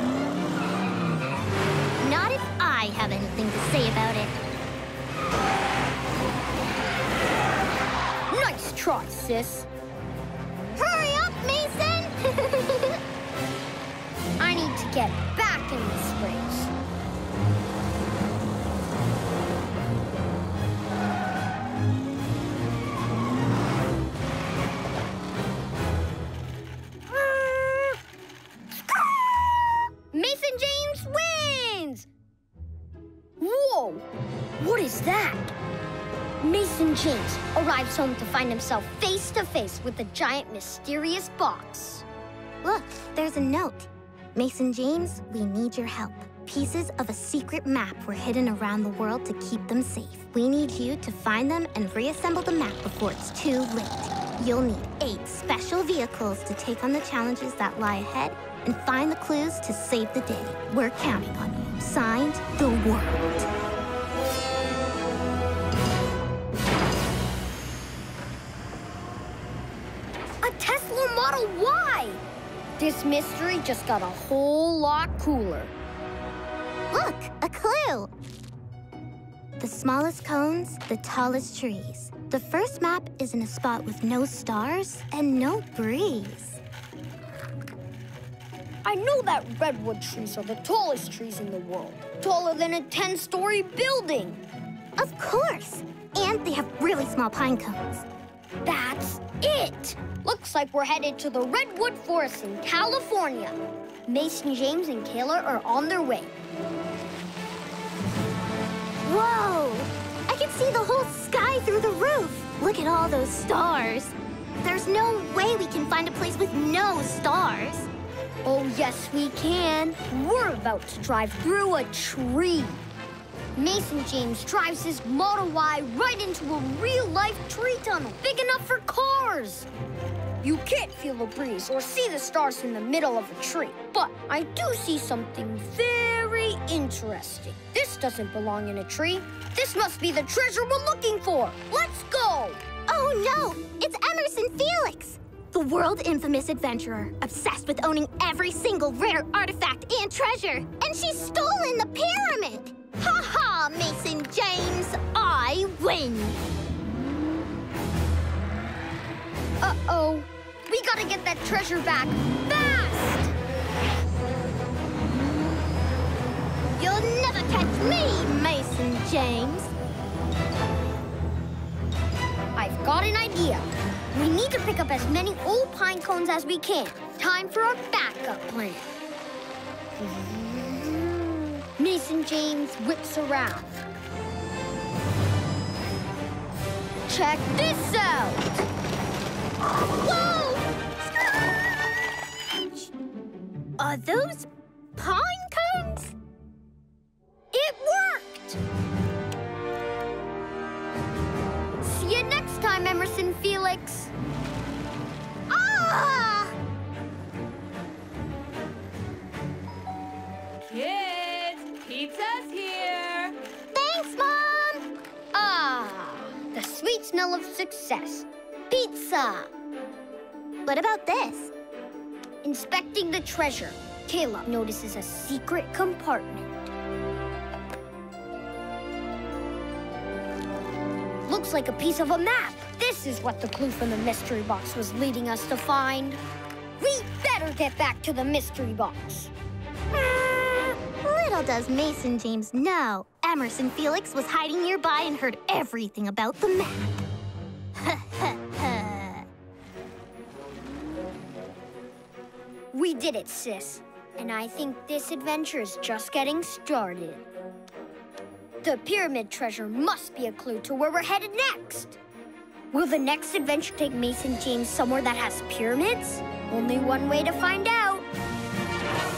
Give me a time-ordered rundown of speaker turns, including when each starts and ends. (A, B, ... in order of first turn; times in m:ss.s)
0:02.0-0:04.4 A
0:08.3-0:09.7 B
0:10.7-0:13.0 A
0:14.4-0:16.7 B
0:27.1-0:28.0 B
0:30.1-0:32.1 B
0:33.4-0:34.0 B
0:34.6-0:35.5 B
0:36.4-0:42.0 B
0:42.6-1:03.4 A
1:10.4-1:12.2 B
1:12.8-1:15.7 B
1:16.9-1:18.1 A
1:19.6-1:26.6 A
1:28.8-1:34.4 B
1:35.0-1:38.0 A
1:38.6-1:46.3 B
1:49.0-1:57.9 A
1:58.4-2:02.8 B
2:03.6-2:09.7 B
2:10.4-2:22.6 B
2:22.9-2:36.4 A
2:39.6-2:43.3 B
2:46.7-2:49.7 A
2:52.6-2:58.9 B
3:00.0-3:03.8 B
3:07.1-3:08.6 B
3:10.0-3:10.6 B
3:13.8-3:14.5 B
3:15.0-3:15.9 A
3:15.1-3:16.1 B
3:17.5-3:18.6 B
3:21.8-3:24.1 B
3:25.5-3:26.5 A
3:30.6-3:33.3 C
3:33.7-3:34.9 A
3:35.3-3:39.5 B
3:40.6-3:41.5 A
3:42.4-3:46.7 B
3:51.2-3:56.2 B
3:56.8-3:59.3 B
3:59.9-4:07.0 A
4:07.7-4:09.2 A
4:12.7-4:17.2 B
4:18.6-4:22.0 B
4:22.7-4:28.1 B